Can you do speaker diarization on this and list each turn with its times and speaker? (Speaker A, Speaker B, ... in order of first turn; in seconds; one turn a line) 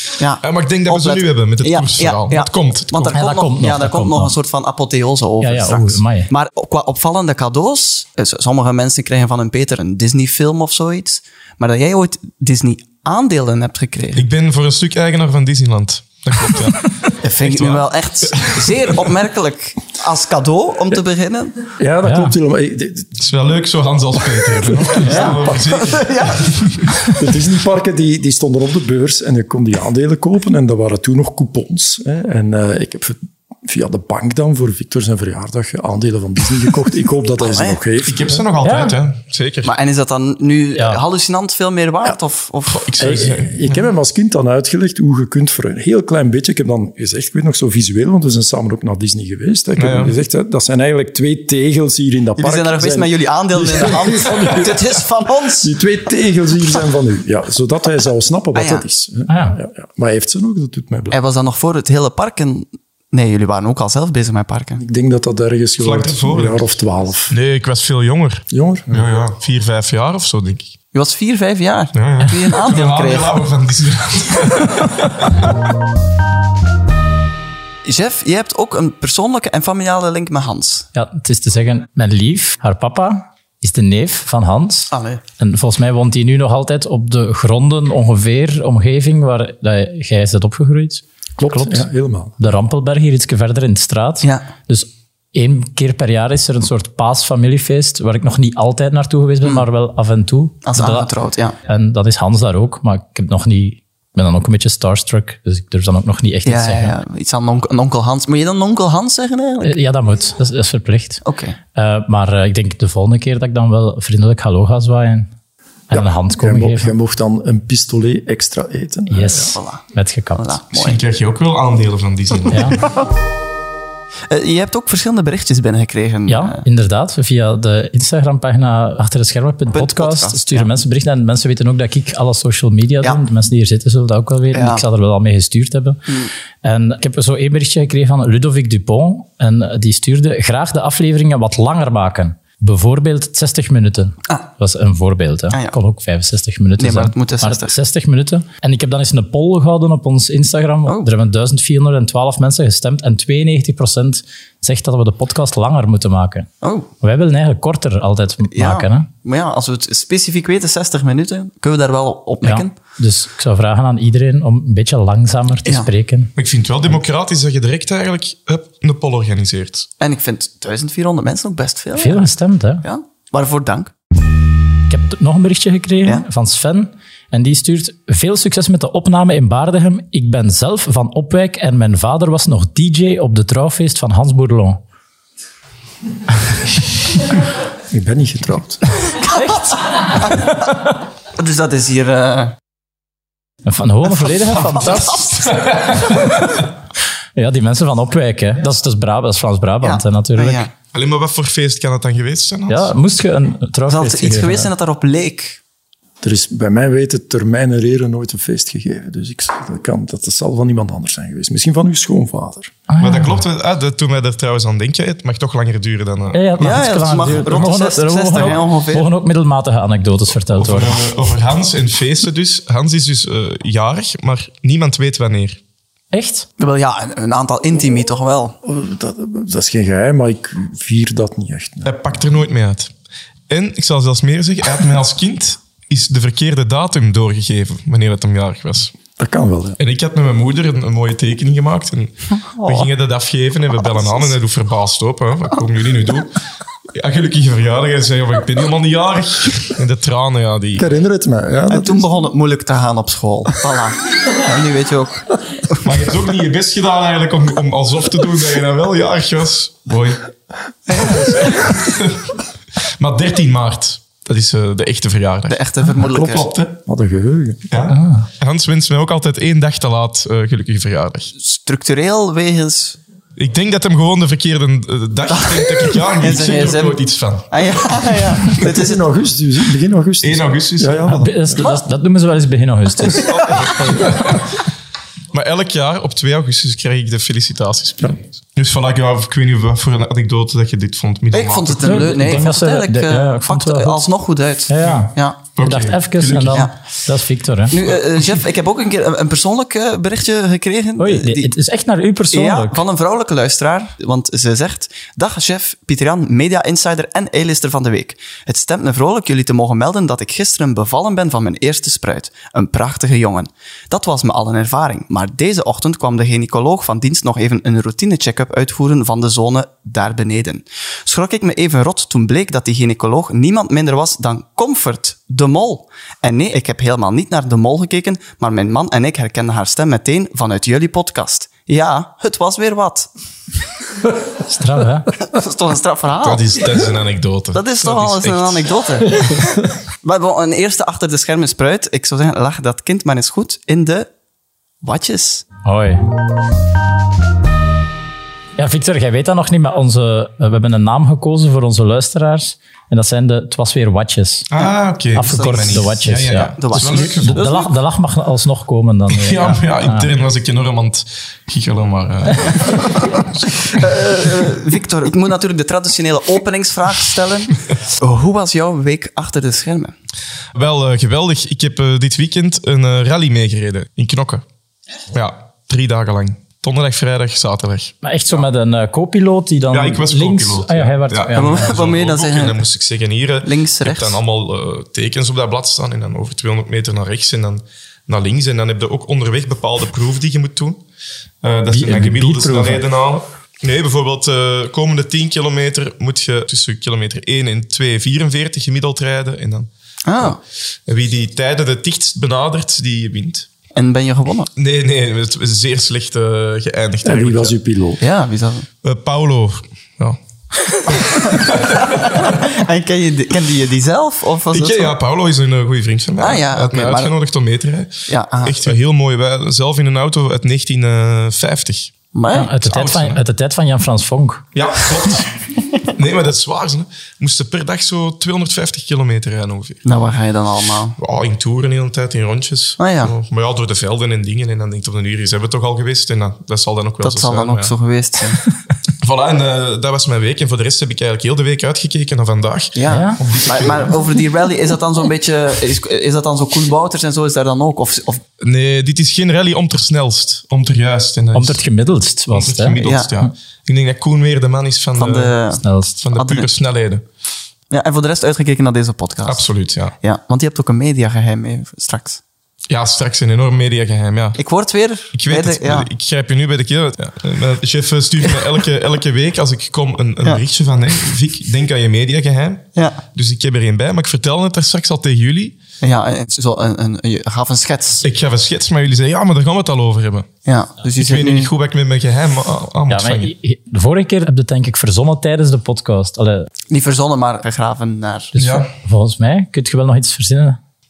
Speaker A: 0.2-14.3
Speaker B: 0.4-3.1
Speaker C: 3.1-4.3
Speaker C: 5.4-6.3
Speaker B: 14.1-18.9
Speaker A: 17.2-21.6
Speaker D: 21.8-23.2
Speaker C: 22.0-22.3
Speaker B: 23.2-26.9
Speaker D: 24.2-25.6
Speaker A: 25.0-26.5
Speaker D: 27.1-38.4
Speaker A: 37.4-37.8
Speaker B: 38.0-39.7
Speaker C: 38.6-39.0
Speaker A: 39.6-42.9
Speaker C: 40.7-41.0
Speaker B: 42.7-43.8
Speaker D: 43.0-55.0
Speaker B: 49.8-50.1
Speaker A: 52.4-55.7
Speaker D: 55.6-61.1
Speaker A: 58.5-58.8
Speaker C: 59.3-59.6
Speaker A: 61.1-64.8
Speaker D: 64.8-67.3
Speaker B: 65.8-66.6
Speaker B: 67.3-70.7
Speaker D: 68.5-69.0
Speaker A: 70.9-73.4
Speaker B: 71.9-75.5
Speaker A: 77.8-80.9
Speaker C: 80.9-91.8
Speaker A: 84.9-85.2
Speaker D: 91.4-92.3
Speaker C: 92.4-101.1
Speaker A: 100.6-101.5
Speaker C: 101.7-107.0
Speaker A: 106.5-109.8
Speaker C: 109.6-111.2
Speaker A: 111.2-111.6
Speaker C: 111.7-115.3
Speaker C: 115.9-116.9
Speaker D: 115.9-119.5
Speaker C: 119.1-120.6
Speaker A: 119.3-119.8
Speaker A: 120.3-121.0
Speaker B: 120.7-122.8
Speaker C: 122.5-122.8
Speaker A: 124.3-126.6
Speaker C: 126.3-136.0
Speaker A: 129.7-130.7
Speaker A: 134.5-134.8
Speaker C: 136.6-156.5
Speaker A: 146.8-147.7
Speaker A: 156.6-156.9
Speaker C: 157.0-159.1
Speaker A: 158.5-162.7
Speaker C: 162.4-166.3
Speaker B: 166.3-169.9
Speaker A: 170.0-172.3
Speaker C: 171.9-172.8
Speaker A: 172.8-173.9
Speaker C: 174.9-184.8
Speaker D: 187.9-188.9
Speaker A: 189.2-190.5
Speaker C: 189.3-189.7
Speaker C: 190.4-190.7
Speaker A: 191.3-192.5
Speaker C: 193.7-196.7
Speaker A: 194.2-195.5
Speaker C: 197.3-200.7
Speaker A: 199.8-200.7
Speaker B: 200.9-202.9
Speaker C: 202.7-204.7
Speaker A: 203.9-205.6
Speaker D: 206.2-212.8
Speaker C: 212.9-213.4
Speaker B: 213.0-217.4
Speaker C: 216.3-221.0
Speaker A: 216.6-219.1
Speaker B: 220.5-225.6
Speaker C: 226.1-226.4
Speaker A: 226.6-228.6
Speaker D: 228.6-232.3
Speaker B: 231.8-232.9
Speaker B: 233.5-238.9
Speaker D: 239.2-239.8
Speaker B: 239.8-246.3
Speaker A: 242.6-242.9
Speaker A: 243.8-244.4
Speaker B: 246.9-250.9
Speaker D: 250.8-252.1
Speaker A: 251.7-255.9
Speaker B: 255.8-260.3
Speaker A: 260.9-261.6
Speaker B: 261.0-262.4
Speaker B: 263.0-265.6
Speaker A: 265.5-266.5
Speaker D: 266.0-267.8
Speaker B: 266.1-266.5
Speaker B: 267.7-271.3
Speaker C: 267.9-268.3
Speaker A: 271.4-273.0
Speaker B: 273.4-278.6
Speaker A: 275.3-279.1
Speaker D: 278.6-281.6
Speaker B: 280.2-281.4
Speaker C: 281.1-284.4
Speaker A: 283.1-283.4
Speaker B: 283.2-284.4
Speaker B: 285.3-292.4
Speaker A: 291.3-295.4
Speaker C: 291.8-294.0
Speaker C: 294.7-297.8
Speaker B: 295.6-296.7
Speaker A: 297.7-301.5
Speaker C: 301.0-302.8
Speaker A: 302.3-333.1
Speaker C: 334.5-335.1
Speaker A: 335.2-336.5
Speaker B: 336.2-338.7
Speaker A: 337.5-339.4
Speaker A: 340.0-344.1
Speaker A: 344.8-345.4
Speaker C: 345.6-346.0
Speaker C: 348.6-354.5
Speaker B: 354.5-357.4
Speaker C: 355.1-360.1
Speaker A: 355.2-355.9
Speaker A: 356.6-357.7
Speaker B: 359.1-363.9
Speaker A: 363.7-369.9
Speaker B: 370.5-374.4
Speaker B: 375.1-377.9
Speaker C: 378.0-381.7
Speaker B: 379.7-390.8
Speaker A: 381.3-382.6
Speaker A: 383.4-384.2
Speaker B: 391.4-399.7
Speaker C: 391.7-392.8
Speaker A: 400.0-400.4
Speaker B: 400.2-403.5
Speaker A: 403.7-404.5
Speaker B: 404.5-407.5
Speaker D: 407.0-408.0
Speaker A: 408.0-408.7
Speaker B: 408.8-410.2
Speaker B: 410.7-412.4
Speaker A: 411.0-414.9
Speaker B: 414.5-421.9
Speaker A: 416.2-417.1
Speaker A: 418.1-418.7
Speaker A: 422.1-422.5
Speaker C: 422.3-424.4
Speaker B: 422.6-423.2
Speaker B: 424.5-425.4
Speaker B: 425.9-429.8
Speaker A: 429.8-431.0
Speaker B: 431.0-437.7
Speaker A: 432.8-433.1
Speaker A: 437.0-438.4
Speaker B: 439.0-444.0
Speaker A: 442.8-448.2
Speaker C: 442.9-443.2
Speaker B: 448.4-451.6
Speaker C: 451.3-453.3
Speaker B: 452.3-455.4
Speaker A: 452.8-453.1
Speaker A: 454.9-455.6
Speaker C: 455.6-456.0
Speaker B: 456.0-457.0
Speaker A: 456.1-456.5
Speaker A: 457.7-459.5
Speaker B: 459.2-459.9
Speaker A: 460.0-462.2
Speaker B: 462.7-464.4
Speaker A: 464.4-465.9
Speaker B: 465.1-475.6
Speaker A: 472.8-473.0
Speaker A: 475.8-478.0
Speaker B: 478.0-480.3
Speaker A: 480.4-481.5
Speaker B: 481.0-483.3
Speaker C: 482.9-486.5
Speaker A: 486.7-488.3
Speaker C: 488.3-490.6
Speaker B: 488.4-488.7